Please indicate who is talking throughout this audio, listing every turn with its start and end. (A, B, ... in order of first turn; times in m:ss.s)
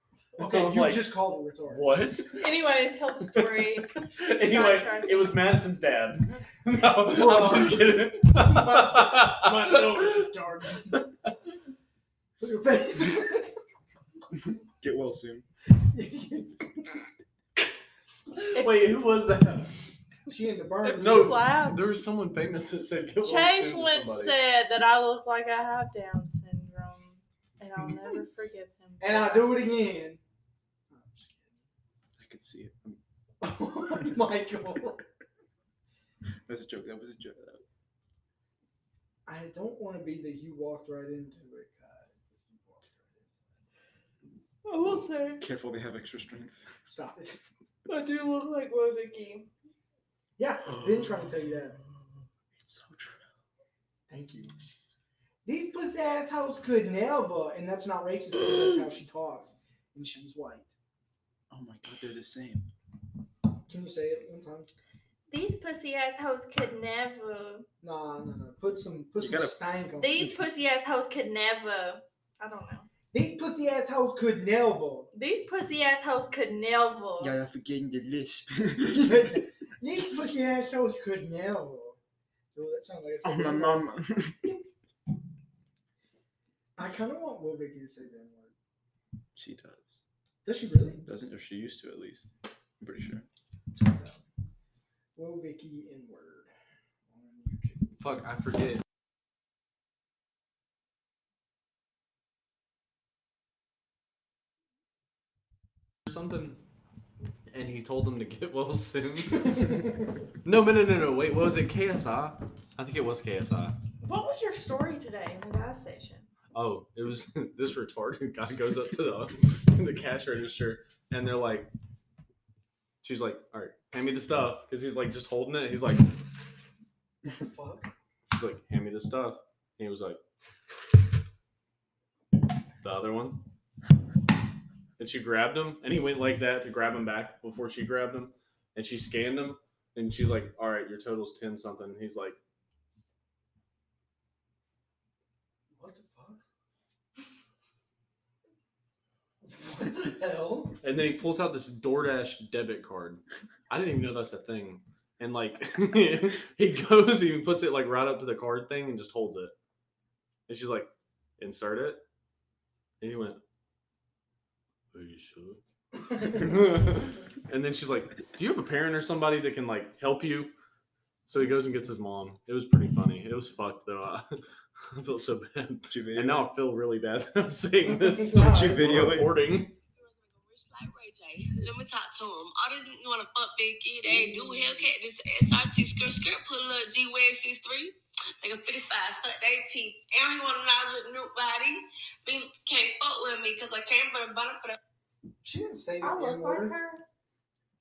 0:00.4-0:02.0 A
0:00.4-0:02.5 B
0:02.3-0:05.4 C
0:03.3-0:11.0 B
0:07.0-0:11.0 A
0:12.4-0:13.5 A
0:14.8-0:15.4 D
0:15.8-0:16.9 A
0:18.4-0:19.7 B
0:18.5-0:18.8 C
0:20.3-0:21.4 A
0:20.9-0:21.8 C
0:20.9-0:24.4 B
0:23.2-0:29.6 C
0:29.0-0:30.2 A
0:30.9-0:31.6 A
0:32.2-0:33.0 D
0:33.4-0:35.0 A
0:36.5-0:37.6 D
0:39.3-0:43.3 A
0:44.6-0:45.4 C
0:45.4-0:46.7 D
0:46.9-0:47.4 A
0:47.9-0:49.5 C
0:50.4-0:51.8 A
0:50.7-0:53.3 D
0:54.1-0:54.5 A
0:55.4-1:00.7 A
1:01.5-1:02.7 D
1:03.7-1:04.7 A
1:05.3-1:07.7 C
1:07.8-1:10.4 A
1:09.2-1:09.6 D
1:10.0-1:12.9 C
1:13.1-1:15.1 A
1:15.1-1:17.3 C
1:17.2-1:19.4 D
1:18.8-1:22.0 A
1:22.5-1:23.9 A
1:23.2-1:24.6 D
1:26.8-1:28.5 A
1:29.4-1:30.0 D
1:30.4-1:31.0 A
1:31.0-1:32.3 D
1:32.8-1:33.2 D
1:33.7-1:34.2 A
1:35.2-1:36.5 A
1:37.1-1:38.0 A
1:38.0-1:38.8 B
1:46.1-1:46.6 B
1:47.5-1:49.8 B
1:50.4-1:53.8 B
1:54.0-1:56.3 C
1:56.5-2:01.7 B
2:03.0-2:06.2 B
2:07.2-2:07.9 A
2:08.3-2:10.2 B
2:12.8-2:13.4 B
2:15.0-2:22.4 B
2:25.8-2:26.4 A
2:29.4-2:30.8 A
2:30.8-2:39.5 B
2:40.5-2:42.0 B
2:43.0-2:43.4 B
2:44.9-2:45.6 B
2:46.1-2:46.5 A
2:46.2-2:50.5 B
2:51.3-2:59.8 B
2:55.9-2:56.5 D
2:57.8-2:59.1 A
2:58.4-2:59.4 D
3:00.0-3:14.8 E
3:04.0-3:04.9 A
3:15.4-3:16.8 A
3:16.0-3:17.0 C